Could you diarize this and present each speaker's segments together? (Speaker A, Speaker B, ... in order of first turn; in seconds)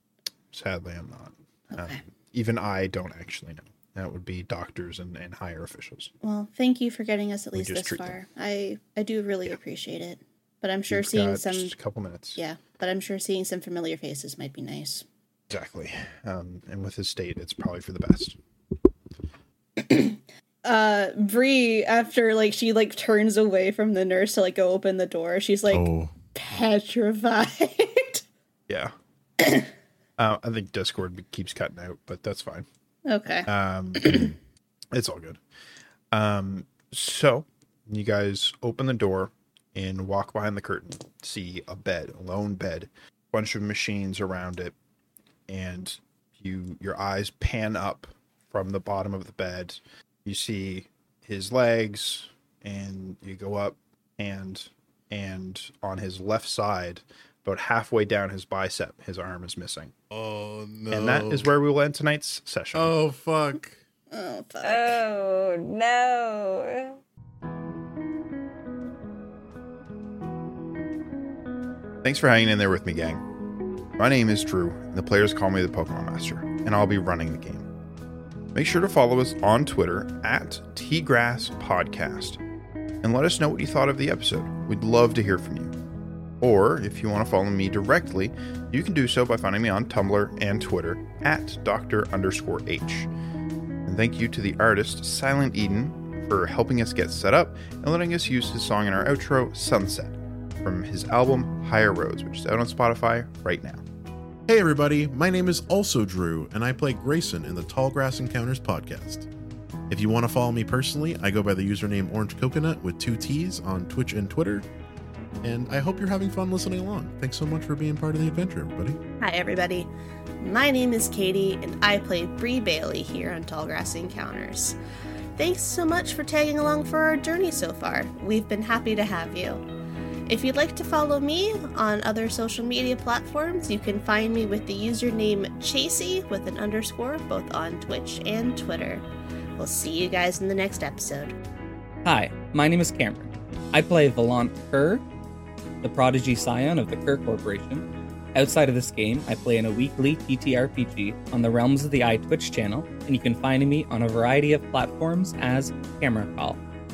Speaker A: 0.5-6.1, 7.6-8.2, 10.9-12.4, 15.5-18.4, 30.2-32.6, 33.5-34.3, 34.9-35.4, 36.1-44.7, 45.5-59.9, 60.9-62.9, 72.0-73.2, 74.0-77.7, 78.5-82.4, 83.0-85.7, 86.4-93.1, 93.9-103.8
Speaker B: 1.7-2.0, 6.2-11.7, 12.4-15.1, 19.8-28.2, 29.4-29.7, 33.1-34.3, 64.1-65.0, 119.2-124.8, 125.4-129.6, 130.3-141.4
Speaker C: 25.7-26.1, 60.1-61.5, 62.7-63.8, 104.5-109.3, 109.9-114.7, 115.4-119.0
Speaker D: 64.6-67.0
Speaker E: 142.0-145.0, 145.8-156.6